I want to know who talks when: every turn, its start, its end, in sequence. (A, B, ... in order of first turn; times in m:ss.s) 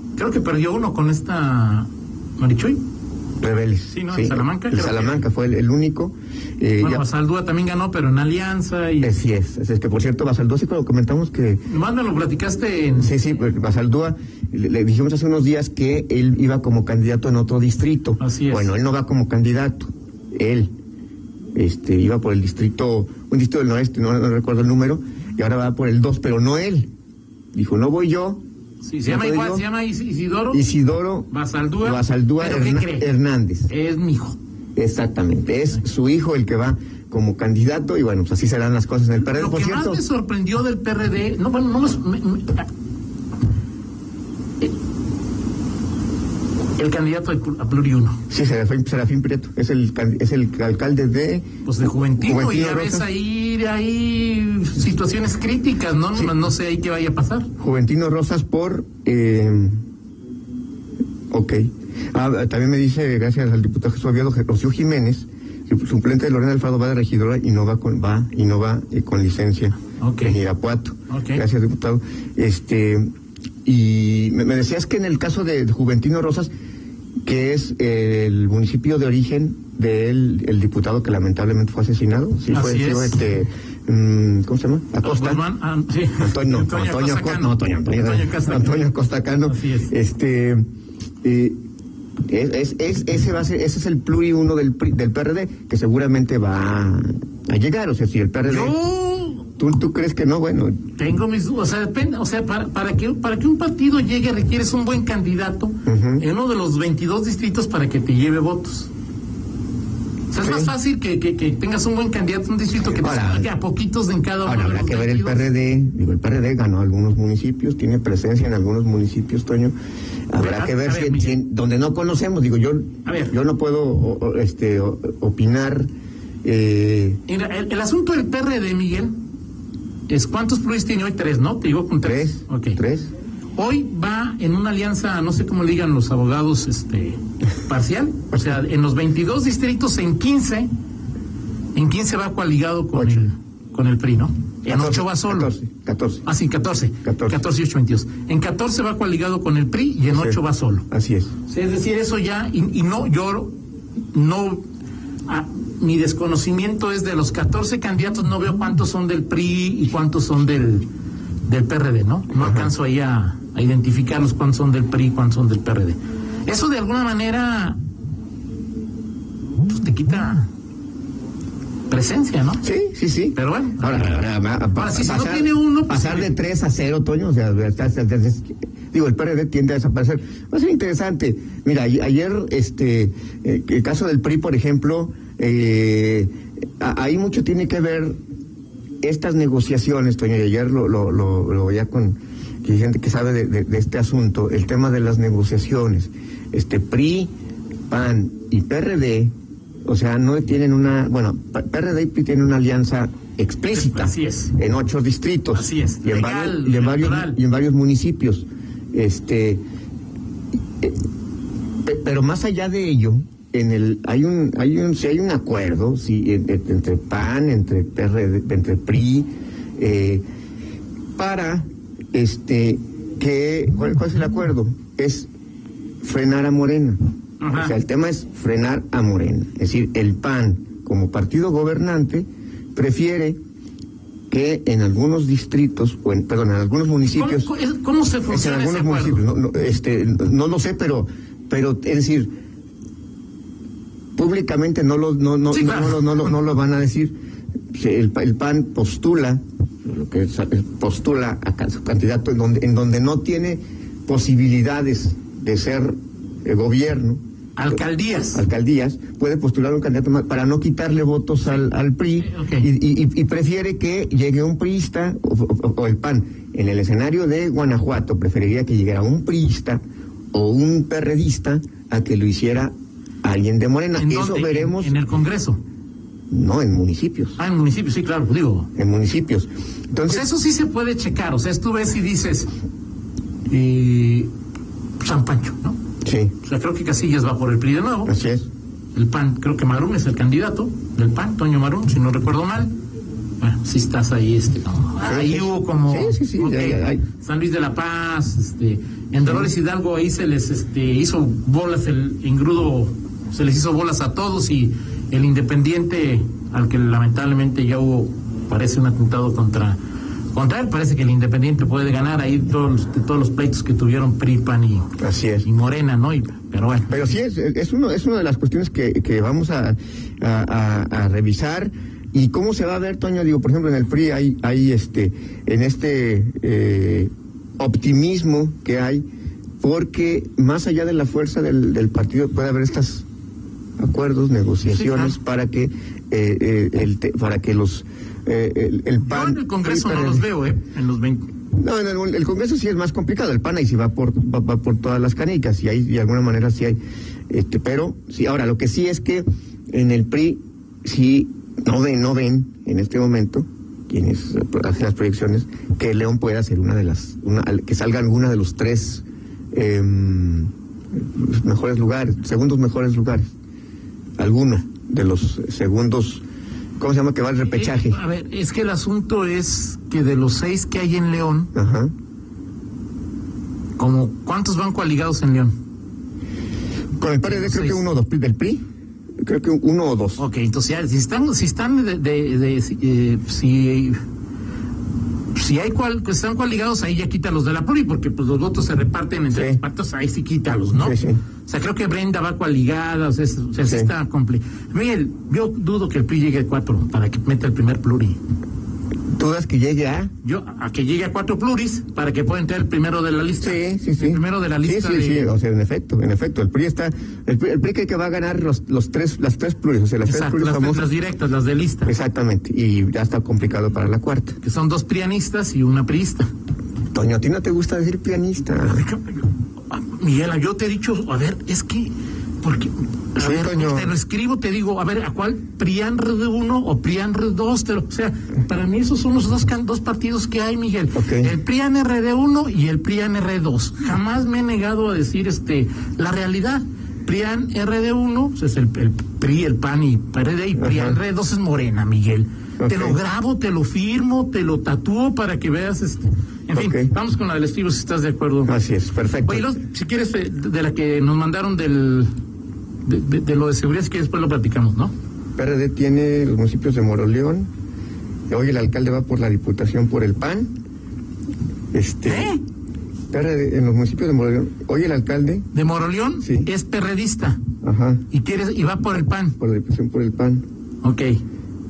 0:00.2-0:02.8 A
0:03.4-0:07.0 B
0:03.9-0:05.2 A
0:06.8-0:09.2 A
0:09.0-0:11.7 B
0:11.7-0:13.1 A
0:13.0-0:20.7 B
0:18.2-0:18.7 A
0:21.6-0:26.9 B
0:27.5-0:28.4 B
0:28.8-0:30.7 A
0:29.0-0:29.6 B
0:30.5-0:31.3 B
0:31.3-0:33.1 A
0:31.8-0:33.7 B
0:33.7-0:34.4 A
0:34.8-0:40.0 B
0:39.2-0:42.7 A
0:46.8-0:48.2 A
0:48.3-0:51.5 B
0:51.6-0:57.5 A
0:52.2-0:53.1 B
0:57.6-0:59.8 B
1:01.3-1:13.1 B
1:10.0-1:10.4 A
1:11.1-1:11.4 A
1:13.6-1:16.5 B
1:17.2-1:25.4 B
1:22.5-1:23.2 A
1:25.0-1:28.9 A
1:26.1-1:30.6 B
1:29.5-1:29.9 A
1:31.2-1:31.6 B
1:32.3-1:38.7 B
1:38.4-1:39.4 A
1:39.6-1:40.8 B
1:41.0-1:48.9 A
1:45.9-1:46.3 B
1:50.3-1:55.5 A
1:50.4-1:50.7 B
1:52.8-1:53.5 B
1:54.4-1:59.8 B
2:00.3-2:05.9 B
2:00.4-2:01.4 A
2:03.0-2:03.3 A
2:06.4-2:07.2 B
2:07.3-2:09.2 A
2:10.1-2:12.8 A
2:12.0-2:13.1 B
2:13.6-2:20.7 A
2:21.8-2:25.5 A
2:23.0-2:23.3 B
2:24.6-2:26.3 B
2:26.3-2:30.8 A
2:27.0-2:27.4 B
2:30.1-2:30.4 B
2:30.9-2:31.3 B
2:31.5-2:33.5 A
2:34.1-2:34.6 A
2:35.3-2:40.9 A
2:41.5-2:47.8 A
2:42.4-2:42.7 B
2:49.6-2:50.5 A
2:51.9-2:52.6 A
2:52.6-3:08.2 B
2:53.4-2:54.2 A
2:54.8-2:56.3 A
3:09.0-3:17.3 B
3:17.9-3:19.3 B
3:19.9-3:29.6 B
3:23.7-3:24.5 A
3:25.5-3:27.4 A
3:31.8-3:40.2 B
3:41.2-3:45.3 B
3:46.0-3:47.0 B
3:47.4-3:47.8 A
3:47.5-3:53.4 B
3:54.3-3:57.5 B
3:57.1-3:59.2 A
3:58.3-4:02.3 B
4:04.2-4:07.2 B
4:05.5-4:06.3 A
4:07.7-4:17.2 B
4:17.6-4:18.4 A
4:18.3-4:29.8 B
4:21.4-4:22.7 A
4:30.3-4:32.7 B
4:33.2-4:35.0 B
4:34.0-4:35.6 A
4:36.3-4:37.4 B
4:37.4-4:38.7 A
4:38.8-4:40.3 B
4:40.1-4:42.5 A
4:43.5-4:44.3 A
4:45.0-4:45.8 A
4:46.0-4:46.3 B
4:46.4-4:48.1 A
4:48.1-4:48.5 B
4:49.0-4:52.7 A
4:53.4-5:09.8 A
4:55.0-4:57.0 B
4:59.2-4:59.5 B
5:10.3-5:14.9 A
5:15.0-5:15.5 B
5:15.4-5:17.1 A
5:16.9-5:29.0 B
5:29.6-5:33.0 B
5:33.8-5:40.3 B
5:34.7-5:35.2 A
5:39.1-5:41.2 A
5:41.5-5:46.8 B
5:47.3-6:00.5 B
6:01.2-6:03.3 B
6:04.2-6:06.2 B
6:06.8-6:08.0 B
6:07.5-6:11.5 A
6:11.6-6:11.9 B
6:13.8-6:15.5 A
6:17.0-6:18.6 B
6:17.2-6:17.8 A
6:19.2-6:20.2 B
6:20.2-6:24.0 A
6:25.3-6:38.2 A
6:29.3-6:29.6 B
6:30.7-6:31.2 B
6:33.6-6:33.9 B
6:39.2-6:40.1 B
6:40.2-6:45.3 A
6:43.4-6:50.9 B
6:50.0-6:51.9 A
6:51.8-6:54.4 B
6:54.4-6:56.3 A
6:56.9-6:58.9 B
6:58.6-7:28.5 A
7:03.2-7:03.9 B
7:11.0-7:11.3 B
7:20.6-7:21.0 B
7:22.6-7:23.0 B
7:26.5-7:26.9 B
7:28.5-7:29.5 B
7:29.2-7:32.1 A
7:32.9-7:34.9 A
7:35.4-7:37.5 B
7:38.3-7:40.5 B
7:41.7-7:42.4 B
7:42.1-7:42.4 A
7:43.1-7:45.5 B
7:45.5-7:47.4 A
7:46.2-7:46.5 B
7:47.6-7:48.0 B
7:48.1-7:49.4 A
7:49.3-7:50.4 B
7:50.8-7:51.2 A